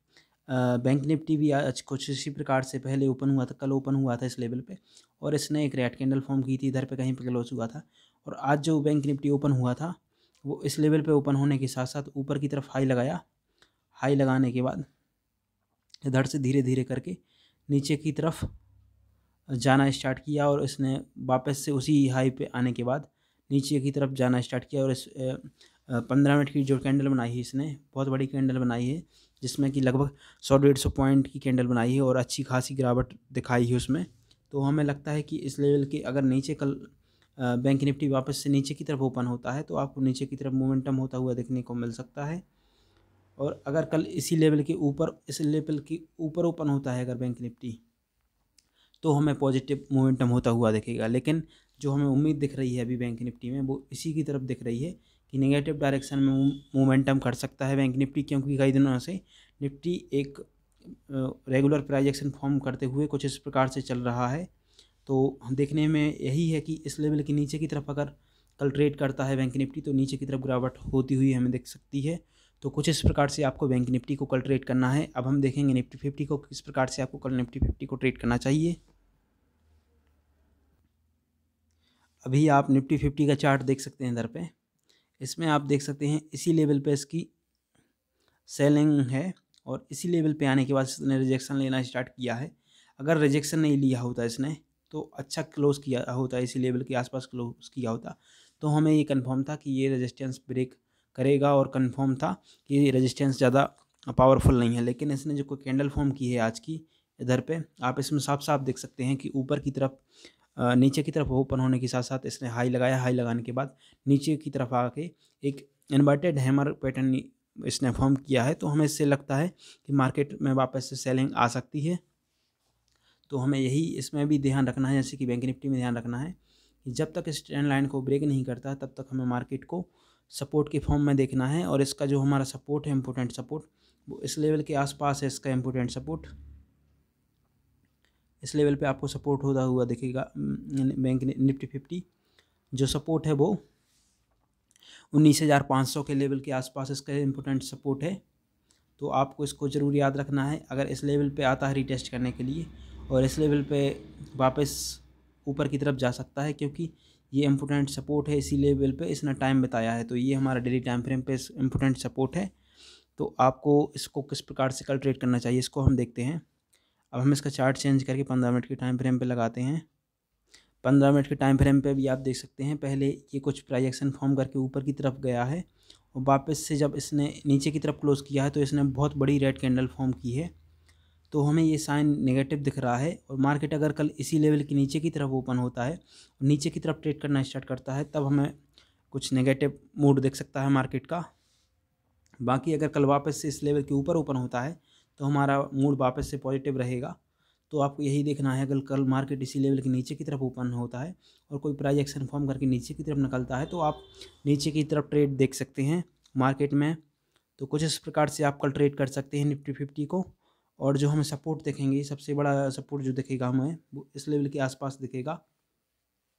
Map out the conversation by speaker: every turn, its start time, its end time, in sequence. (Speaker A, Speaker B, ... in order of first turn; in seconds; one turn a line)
Speaker A: 0.5-13.2
Speaker A: 14.0-14.8
Speaker A: 16.0-18.5
Speaker A: 19.5-42.4
Speaker A: 43.4-47.8
Speaker A: 49.0-64.5
Speaker A: 65.0-78.8
Speaker A: 82.2-84.5
Speaker A: 85.2-87.3
Speaker A: 88.5-110.0
Speaker A: 110.5-122.0
Speaker A: 123.3-136.3
Speaker A: 138.4-142.0
Speaker A: 142.7-143.6
Speaker A: 145.1-148.2
Speaker A: 149.0-162.5
Speaker A: 163.2-166.4
Speaker A: 167.1-169.8
Speaker A: 170.8-180.5
Speaker A: 181.3-188.5
Speaker A: 189.1-191.2
Speaker A: 192.4-197.2
Speaker A: 197.7-207.0
Speaker A: 207.6-215.4